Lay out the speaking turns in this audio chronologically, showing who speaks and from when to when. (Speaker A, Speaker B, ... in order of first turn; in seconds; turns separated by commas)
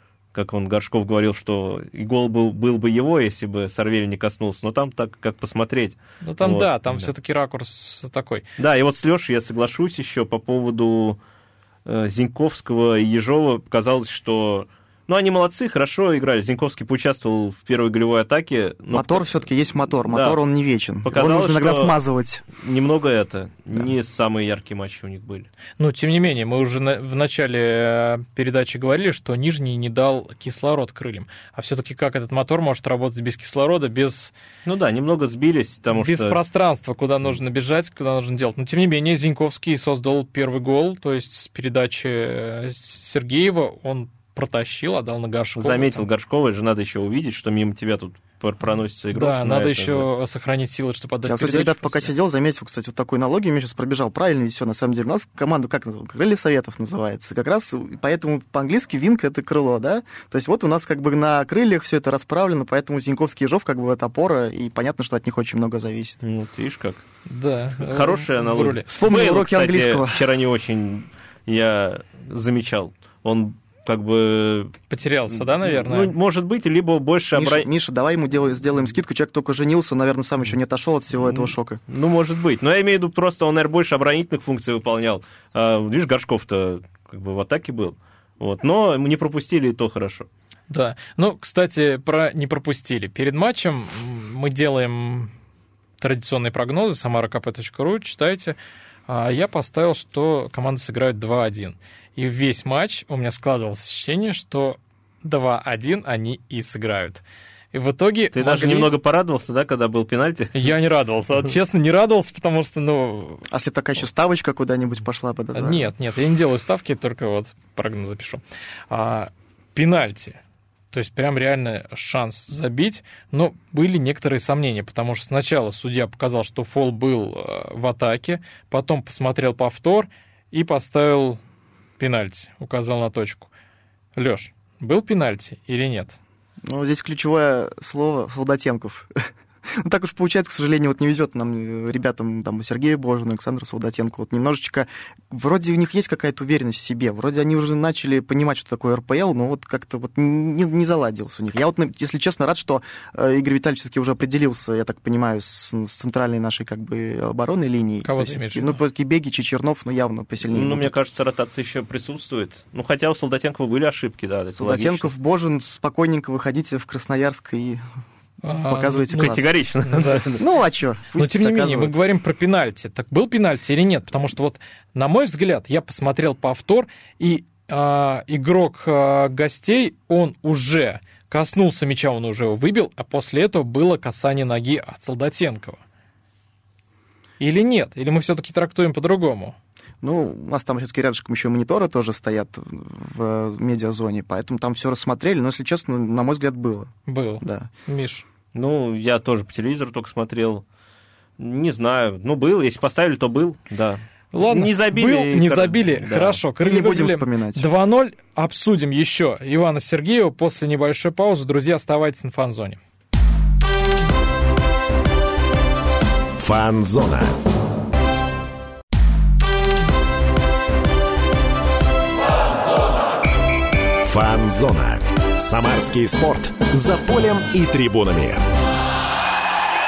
Speaker A: 0.3-7.1, Speaker B: 6.2-8.5, Speaker A: 8.6-11.2, Speaker A: 11.8-19.5, Speaker C: 18.9-22.4, Speaker A: 20.1-20.4, Speaker A: 21.0-22.0, Speaker A: 22.5-25.5, Speaker B: 25.8-34.3, Speaker A: 34.6-36.4, Speaker B: 35.9-46.0, Speaker A: 45.6-50.1, Speaker B: 49.1-52.1, Speaker C: 51.3-66.2, Speaker A: 66.2-67.0, Speaker B: 67.3-68.9, Speaker A: 67.8-74.8, Speaker C: 68.9-70.2, Speaker B: 74.9-76.1, Speaker A: 75.3-77.7, Speaker C: 77.3-81.8, Speaker A: 81.1-90.3, Speaker B: 90.7-95.3, Speaker B: 96.0-98.6, Speaker B: 99.1-108.9, Speaker A: 108.3-110.7, Speaker B: 110.5-113.5, Speaker C: 113.5-115.9, Speaker B: 115.5-120.4, Speaker B: 120.9-131.4, Speaker B: 132.0-133.5, Speaker B: 134.2-136.2, Speaker C: 136.7-139.1, Speaker C: 139.7-160.9, Speaker B: 158.0-158.8, Speaker A: 160.4-165.1, Speaker C: 164.6-167.8, Speaker B: 168.4-170.3, Speaker C: 168.7-169.5, Speaker A: 169.1-170.4, Speaker C: 170.4-171.9, Speaker B: 171.2-185.8, Speaker B: 187.4-189.6, Speaker C: 190.0-197.7, Speaker B: 197.1-198.2, Speaker A: 198.5-200.6, Speaker A: 201.4-206.4, Speaker B: 204.3-212.8, Speaker C: 206.6-207.7, Speaker D: 216.4-217.3, Speaker D: 224.1-228.4